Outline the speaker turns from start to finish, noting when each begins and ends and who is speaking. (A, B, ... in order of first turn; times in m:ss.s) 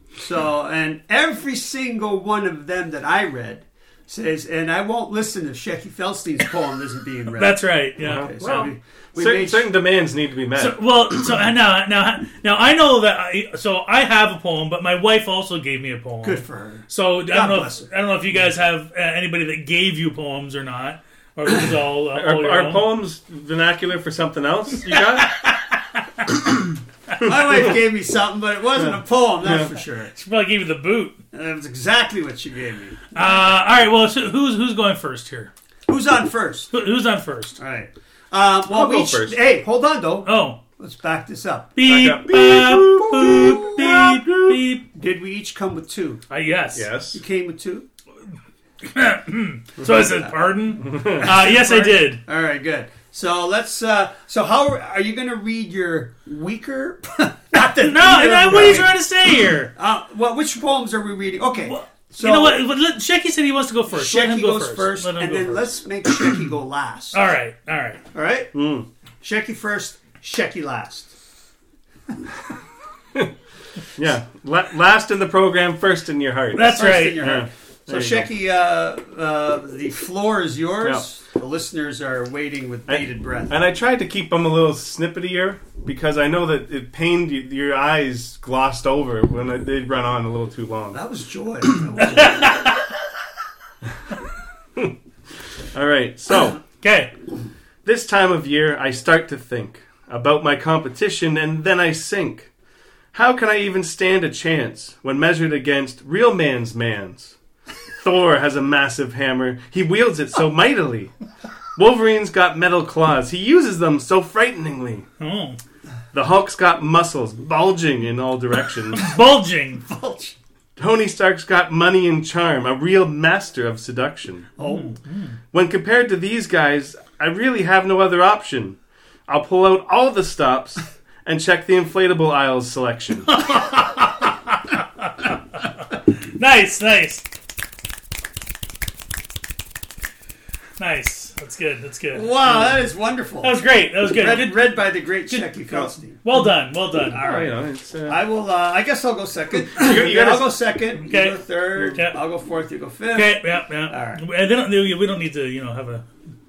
0:00.2-0:09.7 A
0:07.4-0:08.7 B
0:08.0-0:10.8 C
0:10.6-0:22.8 B
0:16.2-0:17.9 A
0:22.1-0:25.4 C
0:25.2-0:25.5 B
0:27.2-0:30.1 A
0:29.4-0:29.7 C
0:30.1-0:31.2 B
0:31.3-0:33.1 A
0:33.1-0:35.5 B
0:35.9-0:36.7 A
0:36.7-0:37.6 B
0:37.6-0:42.1 A
0:38.7-0:39.4 C
0:40.2-0:40.6 B
0:41.8-0:44.8 B
0:41.8-0:44.6 C
0:43.2-0:43.8 A
0:44.9-0:46.2 A
0:46.3-0:46.9 B
0:46.7-0:47.2 C
0:47.1-0:47.8 A
0:48.8-0:52.2 B
0:49.9-0:59.0 A
0:50.8-0:51.3 C
0:57.6-0:59.7 B
0:59.7-1:02.6 A
1:01.6-1:05.7 B
1:03.9-1:07.2 A
1:07.1-1:08.0 B
1:08.1-1:08.5 A
1:08.5-1:08.9 C
1:09.2-1:11.1 A
1:14.0-1:18.3 C
1:16.5-1:17.3 B
1:16.6-1:23.5 A
1:22.9-1:31.0 C
1:30.9-1:32.8 A
1:32.0-1:32.8 B
1:35.6-1:36.6 C
1:36.8-1:37.1 B
1:37.8-1:42.5 C
1:43.1-1:47.4 C
1:48.0-1:51.1 C
1:51.8-1:55.0 C
1:55.2-1:55.6 B
1:56.1-1:59.1 C
1:58.9-1:59.9 B
1:59.9-2:00.4 A
2:00.8-2:04.5 C
2:04.6-2:05.0 A
2:04.6-2:05.4 B
2:05.5-2:13.4 C
2:13.3-2:15.3 B
2:16.2-2:17.2 B
2:20.8-2:22.3 B
2:22.1-2:26.2 A
2:23.4-2:24.8 B
2:26.2-2:27.4 B
2:27.1-2:34.2 A
2:27.1-2:28.2 C
2:29.6-2:30.6 C
2:31.0-2:32.2 B
2:33.1-2:36.0 B